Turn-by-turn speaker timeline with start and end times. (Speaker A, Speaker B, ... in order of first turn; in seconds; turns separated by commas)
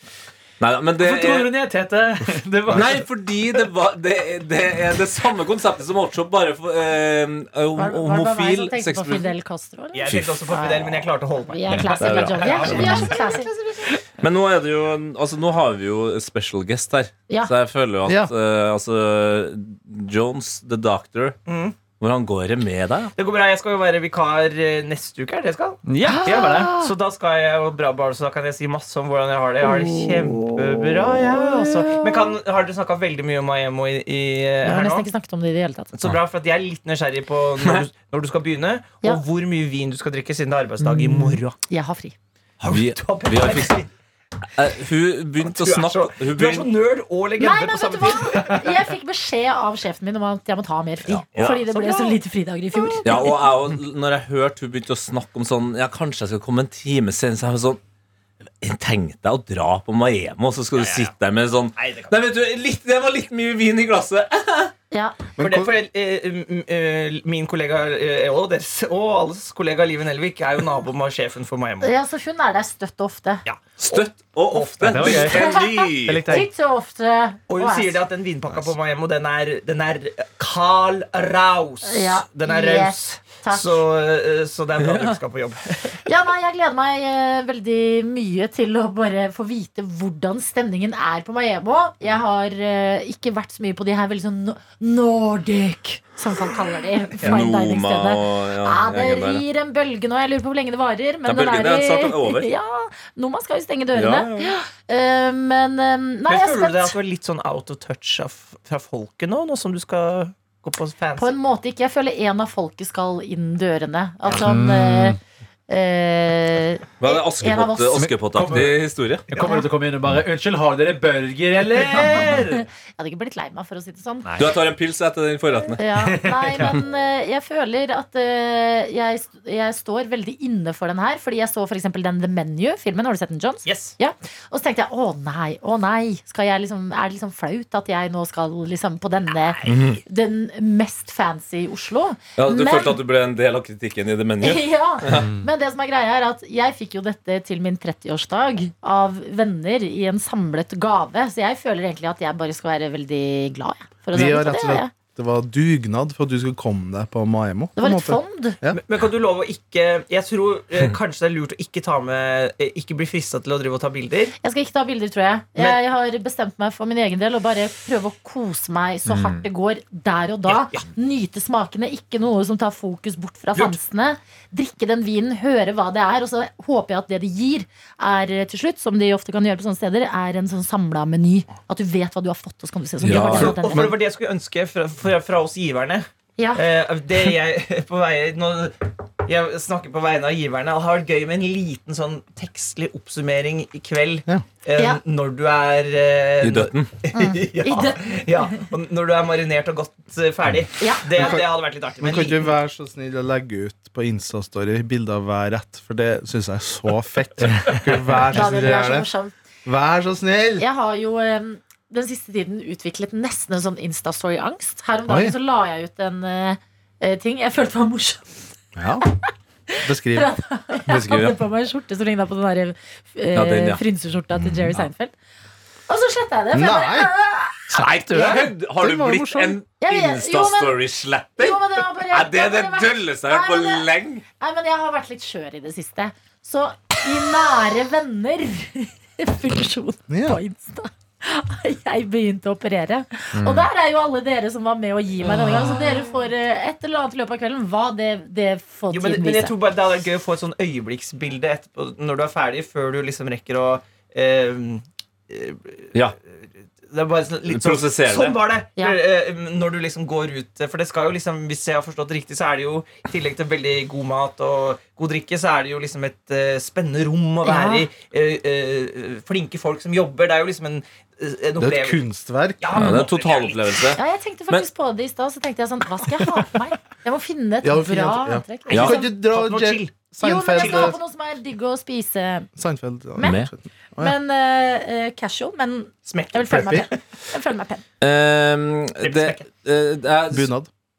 Speaker A: 0.6-1.5, Speaker B: 1.0-3.1, Speaker A: 2.7-9.3, Speaker C: 7.8-13.5, Speaker D: 9.9-14.0, Speaker A: 10.1-10.3, Speaker A: 11.9-13.1, Speaker A: 14.2-21.4, Speaker E: 18.0-18.3, Speaker D: 21.4-21.8, Speaker A: 21.9-23.1, Speaker D: 23.1-35.1, Speaker B: 25.8-26.8, Speaker C: 26.1-26.9, Speaker C: 29.7-30.5, Speaker C: 31.2-32.4, Speaker C: 34.6-35.9, Speaker D: 35.9-41.6, Speaker C: 40.8-42.1, Speaker D: 42.6-43.9, Speaker A: 42.7-43.8, Speaker A: 44.5-46.7, Speaker D: 45.4-48.8, Speaker C: 47.4-53.3, Speaker A: 51.1-51.6, Speaker D: 51.3-52.2, Speaker D: 52.8-53.3, Speaker A: 53.0-57.8, Speaker A: 58.6-64.7, Speaker D: 60.7-61.1, Speaker D: 61.7-62.2, Speaker C: 64.9-65.2, Speaker E: 65.4-65.7, Speaker D: 65.4-71.9, Speaker C: 71.8-73.4, Speaker D: 73.4-75.3, Speaker A: 73.8-76.4, Speaker B: 74.8-75.5, Speaker C: 75.0-78.0, Speaker B: 76.0-76.5, Speaker D: 76.1-76.4, Speaker D: 77.5-86.0, Speaker C: 81.8-83.8, Speaker A: 84.8-85.2, Speaker C: 86.0-106.9, Speaker A: 97.2-99.4, Speaker A: 101.2-102.5, Speaker A: 103.9-104.5, Speaker D: 106.2-111.4, Speaker C: 111.2-115.2, Speaker B: 114.3-115.2, Speaker C: 115.7-118.1, Speaker A: 117.0-119.3, Speaker B: 117.9-118.8, Speaker B: 119.3-122.6, Speaker D: 119.3-119.6, Speaker C: 119.4-119.7, Speaker D: 121.9-122.4, Speaker C: 123.0-124.3, Speaker B: 124.2-124.6, Speaker A: 124.4-125.8, Speaker C: 125.8-143.0, Speaker B: 125.9-126.8, Speaker D: 133.6-133.9, Speaker D: 139.4-139.9, Speaker A: 139.7-140.0, Speaker A: 142.4-145.3, Speaker C: 144.4-154.9, Speaker B: 145.1-145.4, Speaker E: 154.1-158.8, Speaker C: 157.8-158.6, Speaker D: 158.7-164.3, Speaker C: 164.4-183.9, Speaker B: 169.1-169.4, Speaker D: 170.5-170.8, Speaker A: 183.0-183.8, Speaker D: 183.0-202.5, Speaker C: 186.4-186.6, Speaker A: 196.4-196.9, Speaker C: 197.1-198.2, Speaker C: 200.8-201.4, Speaker E: 201.2-201.5, Speaker E: 202.0-209.1, Speaker C: 208.3-209.3, Speaker E: 209.6-210.6, Speaker C: 210.6-218.4, Speaker E: 215.1-215.3, Speaker E: 218.8-219.0, Speaker C: 219.2-225.1, Speaker E: 219.8-220.3, Speaker A: 220.8-221.4, Speaker A: 223.3-223.8, Speaker C: 225.9-228.4, Speaker E: 226.5-227.1, Speaker A: 227.7-234.2, Speaker B: 227.8-228.3, Speaker E: 228.8-229.5, Speaker C: 229.8-230.8, Speaker C: 231.4-233.9, Speaker C: 234.4-249.5, Speaker E: 240.1-240.4, Speaker B: 243.4-243.7, Speaker D: 248.9-272.0, Speaker A: 257.5-258.4, Speaker C: 267.4-267.9, Speaker E: 271.6-272.9, Speaker D: 272.6-273.9, Speaker A: 272.7-274.7, Speaker C: 273.9-279.1, Speaker E: 277.6-280.9, Speaker A: 278.7-279.0, Speaker D: 278.8-279.9, Speaker C: 280.2-282.5, Speaker D: 280.5-280.9, Speaker E: 282.6-284.1, Speaker A: 283.2-283.5, Speaker C: 284.0-287.8, Speaker D: 286.1-286.9, Speaker E: 286.5-286.9, Speaker A: 288.0-290.5, Speaker D: 289.0-289.5, Speaker E: 290.3-290.7